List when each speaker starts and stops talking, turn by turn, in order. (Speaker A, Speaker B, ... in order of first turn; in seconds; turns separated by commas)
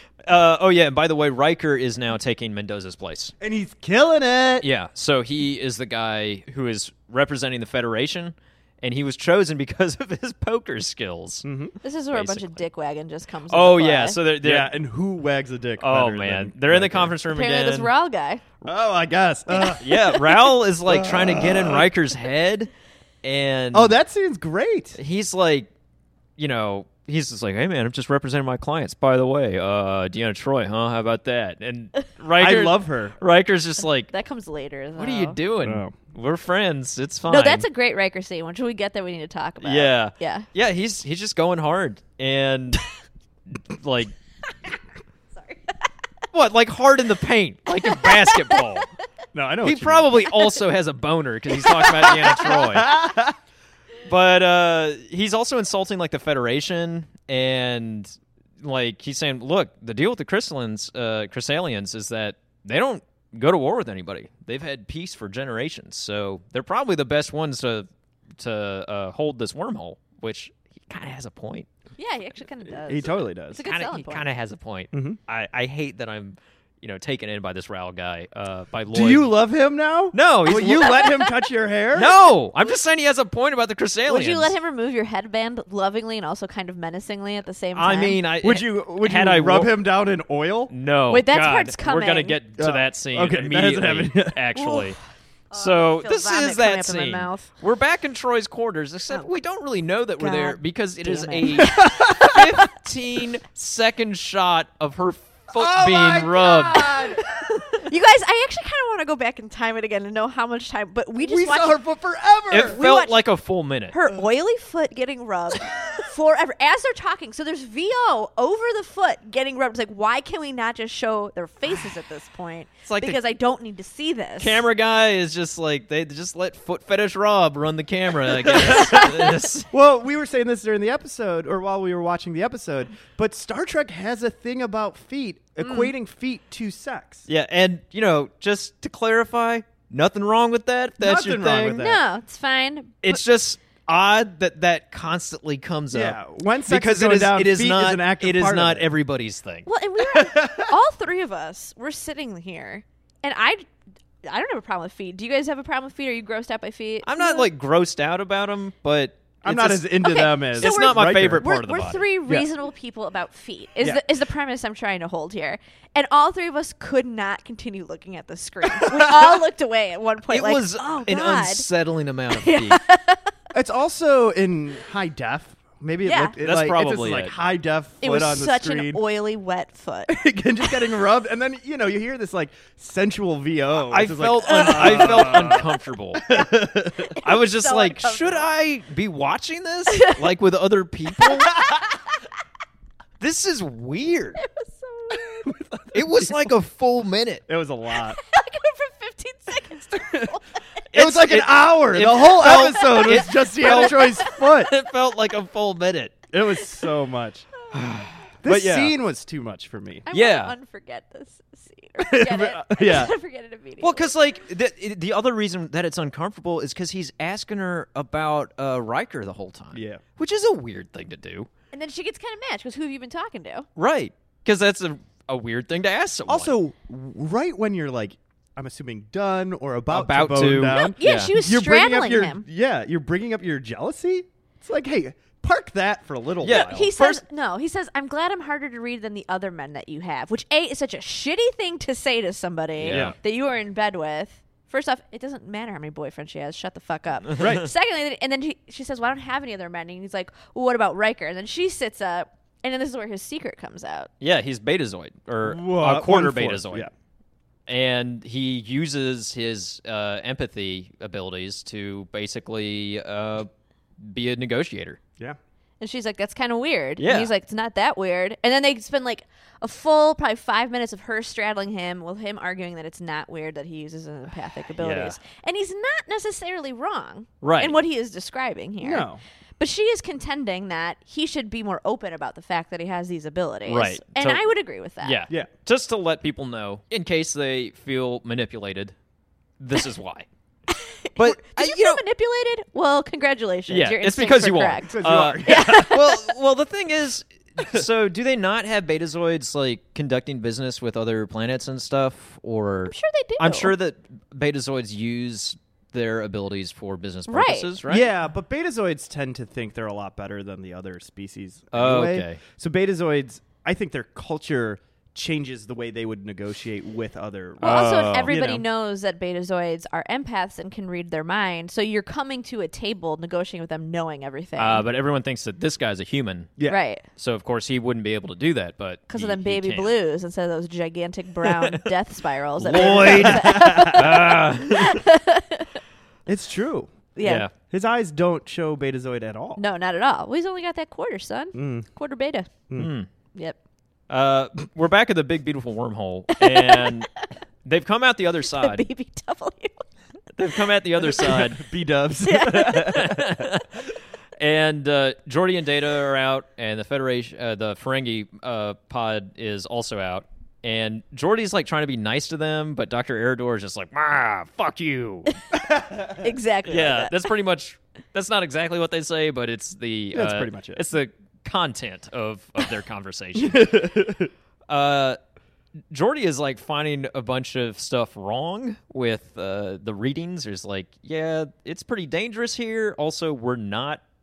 Speaker A: 0.2-3.3, Speaker B: 3.4-4.7, Speaker A: 4.6-11.4, Speaker B: 11.4-11.8, Speaker C: 11.8-14.2, Speaker A: 12.1-12.6, Speaker A: 13.5-14.7, Speaker B: 14.4-17.1, Speaker A: 15.8-17.9, Speaker C: 17.3-18.4, Speaker B: 18.6-20.0, Speaker A: 19.6-22.7, Speaker B: 20.9-21.9, Speaker A: 23.2-23.9, Speaker B: 23.7-25.0, Speaker A: 25.0-25.7, Speaker A: 26.4-34.1, Speaker B: 32.4-33.1, Speaker C: 34.1-35.4, Speaker A: 35.0-37.6, Speaker B: 35.6-36.0, Speaker C: 37.2-40.5, Speaker A: 39.6-42.8, Speaker A: 43.5-44.1, Speaker C: 45.4-45.7, Speaker A: 46.3-48.9, Speaker C: 48.0-48.6, Speaker B: 49.3-50.2, Speaker A: 49.6-53.0, Speaker C: 51.5-52.1, Speaker B: 52.0-53.4, Speaker A: 54.0-67.9, Speaker A: 68.4-71.7, Speaker C: 72.0-74.3, Speaker B: 72.8-73.6, Speaker A: 73.6-79.3, Speaker B: 74.9-75.2, Speaker B: 78.9-82.1, Speaker A: 80.1-81.2, Speaker C: 80.9-81.3, Speaker A: 81.9-84.5, Speaker C: 84.1-88.2, Speaker A: 87.7-89.7, Speaker B: 88.4-90.7, Speaker A: 90.7-95.0, Speaker C: 91.1-92.4, Speaker B: 92.6-94.9, Speaker C: 95.5-97.5, Speaker A: 95.5-107.1, Speaker C: 100.2-102.6, Speaker B: 101.6-102.5, Speaker B: 105.5-107.2, Speaker C: 107.2-111.8, Speaker B: 111.2-112.8, Speaker A: 112.5-114.0, Speaker C: 112.6-113.2, Speaker C: 113.9-124.6, Speaker A: 122.9-123.2, Speaker A: 124.4-129.7, Speaker B: 128.4-129.1, Speaker B: 129.7-137.2, Speaker C: 135.6-135.9, Speaker A: 137.3-141.9, Speaker B: 141.0-142.0, Speaker C: 141.8-143.2, Speaker A: 143.0-149.7, Speaker B: 145.9-148.9, Speaker C: 149.6-153.7, Speaker B: 150.0-150.7, Speaker C: 154.2-157.5, Speaker A: 157.0-162.1, Speaker B: 159.4-161.4, Speaker C: 160.0-171.7, Speaker A: 170.3-172.8, Speaker C: 172.4-173.3, Speaker B: 173.5-179.0, Speaker C: 176.0-176.3, Speaker A: 176.4-177.3, Speaker C: 178.0-180.2, Speaker B: 180.1-187.1, Speaker A: 183.9-186.5, Speaker C: 184.4-185.7, Speaker C: 187.1-188.5, Speaker A: 187.2-191.6, Speaker C: 189.9-190.2, Speaker C: 191.2-192.0, Speaker A: 193.2-194.4, Speaker C: 194.4-195.5, Speaker B: 195.4-196.3, Speaker A: 195.9-197.4, Speaker B: 197.5-198.2, Speaker C: 198.1-200.6, Speaker A: 200.9-206.2, Speaker B: 200.9-204.7, Speaker C: 203.7-204.3, Speaker B: 206.3-207.5, Speaker A: 207.7-208.9, Speaker B: 208.4-210.1, Speaker C: 210.1-214.1, Speaker A: 210.1-210.5, Speaker B: 212.0-213.1, Speaker A: 213.8-221.5, Speaker B: 219.7-220.0, Speaker C: 221.7-223.7, Speaker A: 223.8-226.5, Speaker B: 226.3-236.9, Speaker A: 229.9-231.3, Speaker C: 230.7-232.4, Speaker A: 236.4-237.2, Speaker C: 236.5-254.1, Speaker A: 242.8-243.2, Speaker B: 242.9-243.2, Speaker B: 247.4-247.7, Speaker A: 254.2-256.9, Speaker B: 255.4-256.9, Speaker A: 257.7-263.5, Speaker A: 264.0-265.0, Speaker C: 265.8-279.1, Speaker A: 267.0-267.3, Speaker A: 274.8-275.1, Speaker A: 277.4-277.8, Speaker B: 278.8-279.2, Speaker C: 279.6-285.2, Speaker A: 283.7-284.4, Speaker A: 285.0-288.9, Speaker A: 289.6-290.3, Speaker C: 290.7-296.3, Speaker A: 291.2-292.0, Speaker A: 293.7-308.1, Speaker B: 294.8-296.0, Speaker C: 302.9-303.7, Speaker C: 307.3-307.7, Speaker B: 307.9-318.6, Speaker A: 311.7-312.4, Speaker A: 317.6-318.3, Speaker C: 317.6-324.8, Speaker A: 324.6-326.5, Speaker C: 326.7-327.0, Speaker A: 327.1-329.9, Speaker C: 329.1-335.8, Speaker A: 331.4-331.8, Speaker A: 332.6-335.0, Speaker B: 332.7-334.3, Speaker B: 336.2-337.0, Speaker C: 337.1-337.4, Speaker A: 337.2-337.5, Speaker B: 337.7-339.6, Speaker C: 339.6-342.5, Speaker B: 341.5-341.9, Speaker A: 342.8-343.1, Speaker A: 344.1-348.8, Speaker C: 346.3-347.2, Speaker C: 348.5-349.8, Speaker A: 350.4-351.6, Speaker B: 351.1-353.5, Speaker C: 352.2-353.0, Speaker A: 352.7-365.3, Speaker B: 365.7-366.2, Speaker C: 366.2-367.1, Speaker A: 366.7-373.8, Speaker B: 370.1-370.8, Speaker B: 373.3-374.3, Speaker A: 374.7-375.2, Speaker A: 375.9-384.0